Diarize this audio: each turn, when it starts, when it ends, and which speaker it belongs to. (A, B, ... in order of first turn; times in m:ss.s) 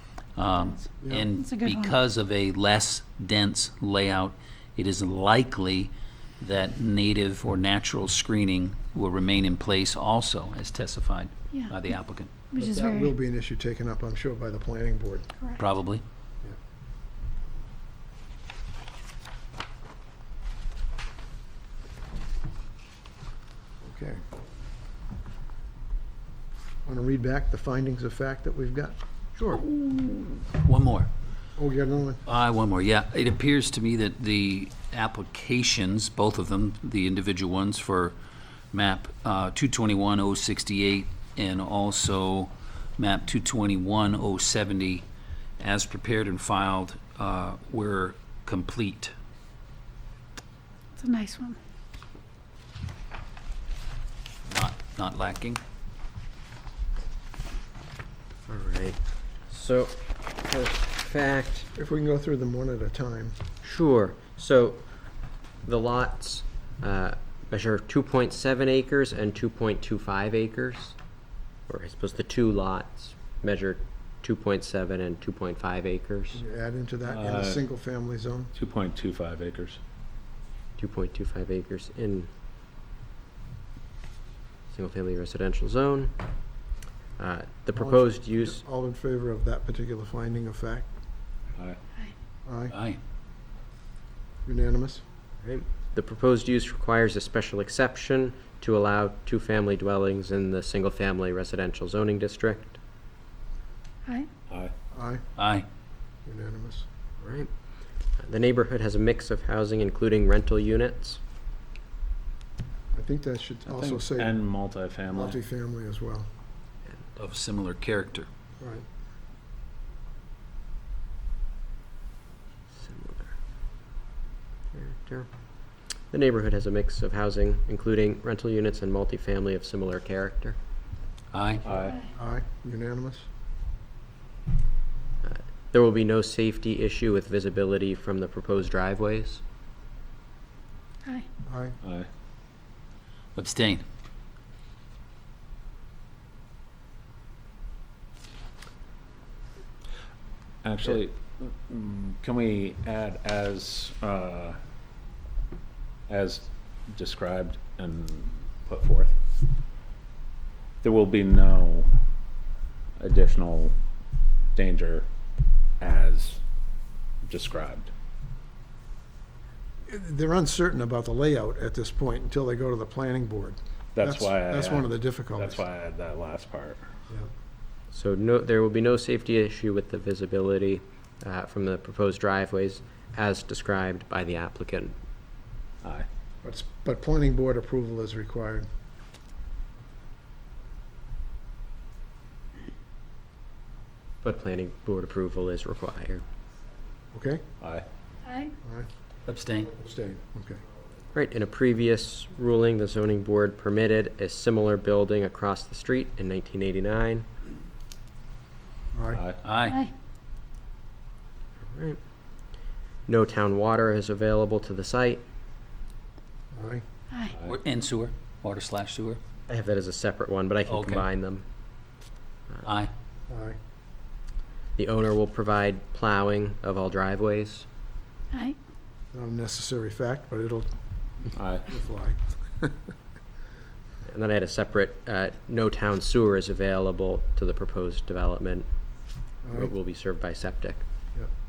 0:00.4-0:12.4 A
0:01.0-0:01.3 B
0:01.4-0:02.0 C
0:12.5-0:13.1 C
0:12.6-0:15.3 B
0:15.4-0:15.6 C
0:15.6-0:16.0 A
0:23.8-0:24.2 B
0:26.8-0:29.0 B
0:29.5-0:31.1 A
0:31.6-0:32.2 B
0:32.3-0:38.2 A
0:38.7-0:45.0 A
0:45.6-0:49.1 A
0:51.0-0:51.6 C
0:54.5-0:55.6 A
0:58.5-1:01.7 D
1:01.8-1:03.4 B
1:03.6-1:04.8 D
1:05.6-1:11.0 D
1:11.7-1:16.4 D
1:16.4-1:18.5 B
1:17.1-1:17.6 E
1:18.6-1:19.8 E
1:20.8-1:22.3 D
1:24.7-1:26.1 D
1:27.2-1:28.6 D
1:27.8-1:30.9 B
1:32.4-1:32.7 B
1:32.7-1:33.0 A
1:34.4-1:35.0 B
1:35.4-1:42.8 D
1:44.9-1:45.2 B
1:45.4-1:45.6 A
1:46.3-1:46.9 B
1:47.2-1:47.5 D
1:48.2-1:51.2 D
1:52.9-1:54.4 B
1:53.7-1:55.4 E
1:55.1-1:56.3 B
1:57.2-1:58.3 A
1:58.6-1:58.8 B
2:02.8-2:03.3 D
2:04.7-2:05.3 D
2:06.1-2:10.6 D
2:11.3-2:11.6 A
2:11.6-2:12.0 E
2:12.1-2:13.3 B
2:15.2-2:19.4 D
2:21.5-2:21.8 B
2:21.8-2:22.1 E
2:23.4-2:23.8 A
2:30.6-2:34.6 E
2:36.1-2:39.2 E
2:40.8-2:42.0 E
2:43.0-2:43.8 E
2:44.6-2:45.1 E
2:45.8-2:46.4 E
2:47.2-2:47.9 E
2:49.9-2:55.6 B
2:54.0-2:56.8 E
2:57.9-3:04.9 D
3:06.4-3:08.7 B
3:14.2-3:16.2 D
3:17.1-3:17.4 B
3:17.6-3:17.9 E
3:18.2-3:18.5 C
3:19.3-3:19.7 A
3:19.8-3:20.6 B
3:21.1-3:27.3 D
3:28.9-3:29.2 B
3:29.1-3:29.4 E
3:29.4-3:29.8 A
3:29.7-3:29.9 C
3:31.7-3:32.0 D
3:33.1-3:35.2 D
3:36.5-3:36.8 B
3:37.4-3:39.2 A
3:39.5-3:41.4 D
3:40.7-3:41.1 A
3:42.6-3:42.9 A
3:43.3-3:43.6 B
3:44.8-3:47.7 D
3:48.3-3:48.6 C
3:49.1-3:50.7 B
3:51.4-3:51.7 E
3:51.7-3:52.7 B
3:54.1-3:58.7 D
3:59.4-3:59.7 B
3:59.5-4:00.8 D